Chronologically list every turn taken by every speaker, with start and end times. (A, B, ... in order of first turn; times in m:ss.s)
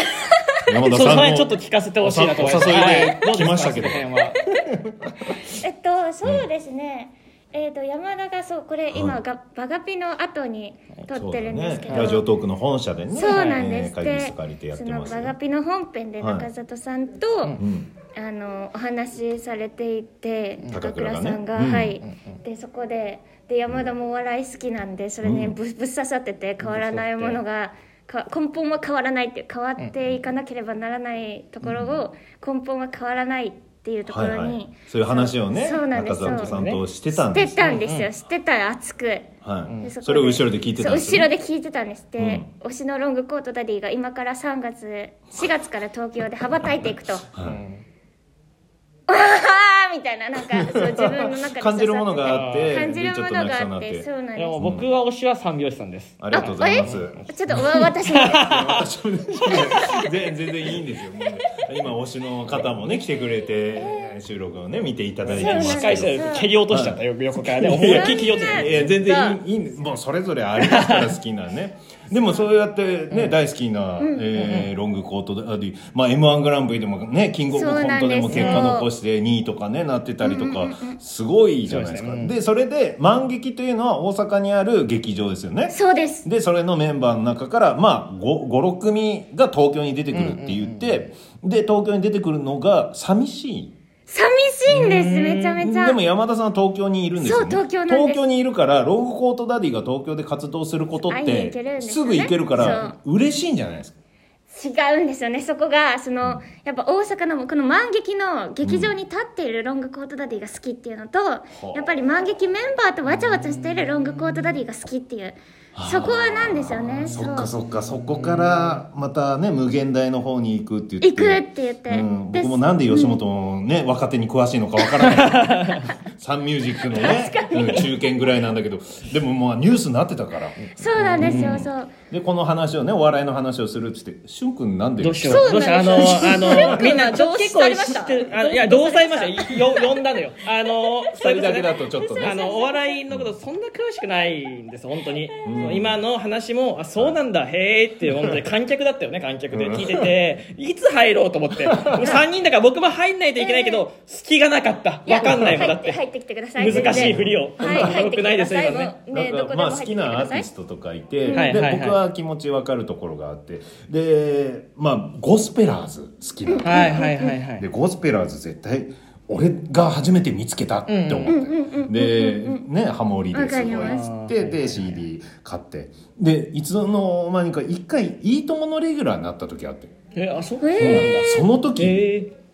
0:00.1-0:00.6 A
0:00.7-0:04.1 B
0:00.9-0:04.4 C
0:04.7-0:05.4 B
0:05.4-0:12.3 A
0:08.9-0:09.2 B
0:11.1-0:15.3 B
0:11.9-0:12.2 C
0:13.1-0:17.6 A
0:13.3-0:13.7 C
0:16.2-0:16.5 B
0:17.6-0:17.9 B
0:18.1-0:36.5 A
0:20.7-0:22.0 B
0:22.0-0:22.3 C
0:25.2-0:25.6 B
0:26.6-0:27.4 C
0:31.6-0:32.0 B
0:34.1-0:37.6 B
0:36.2-0:36.8 C
0:37.1-0:39.3 A
0:37.6-0:38.1 C
0:39.4-0:41.3 B
0:39.7-0:39.9 C
0:39.8-0:47.3 A
0:42.2-0:42.5 B
0:47.3-0:47.6 B
0:47.4-0:47.8 C
0:49.1-0:54.6 A
0:50.6-0:54.9 B
0:52.2-0:52.9 C
0:54.4-0:58.8 C
0:56.2-0:57.6 B
0:56.3-0:58.6 A
0:58.4-1:33.7 B
0:59.4-0:59.8 C
0:59.7-1:00.0 A
1:03.8-1:04.1 A
1:05.2-1:09.0 C
1:05.3-1:06.5 A
1:07.9-1:09.4 A
1:10.6-1:11.1 C
1:13.1-1:13.4 C
1:14.0-1:14.3 A
1:14.4-1:14.7 C
1:17.5-1:18.9 A
1:18.3-1:18.7 C
1:20.2-1:21.0 A
1:21.7-1:22.3 C
1:25.7-1:26.3 A
1:30.1-1:31.0 C
1:34.1-1:36.0 A
1:34.7-1:35.6 C
1:35.6-1:44.0 B
1:37.2-1:38.2 A
1:41.0-1:43.0 A
1:44.5-1:57.5 A
1:48.6-1:48.9 B
1:51.5-1:51.9 B
1:53.2-1:54.0 C
1:55.7-1:56.2 B
1:57.1-2:05.7 B
1:58.0-1:58.8 C
2:01.0-2:03.2 A
2:05.0-2:05.9 C
2:05.6-2:06.0 A
2:06.2-2:16.9 B
2:06.9-2:07.9 A
2:10.8-2:11.6 C
2:10.8-2:11.9 A
2:15.0-2:36.0 C
2:15.2-2:19.9 A
2:20.7-2:23.1 A
2:21.2-2:22.4 B
2:23.1-2:23.4 B
2:25.1-2:25.6 A
2:25.4-2:26.0 B
2:29.5-2:30.1 B
2:31.6-2:32.1 B
2:32.0-2:32.2 A
2:33.4-2:33.8 A
2:35.1-2:40.5 A
2:35.2-2:35.7 B
2:36.6-2:39.0 C
2:36.6-2:38.0 B
2:39.1-2:59.9 B
2:41.2-2:41.6 A
2:41.3-2:42.0 C
2:46.5-2:47.4 A
2:46.6-2:47.6 C
2:50.9-2:51.3 C
2:51.3-2:52.6 A
2:53.3-2:54.1 A
2:53.8-2:55.0 C
3:00.1-3:02.3 C
3:00.6-3:01.2 A
3:00.8-3:02.1 B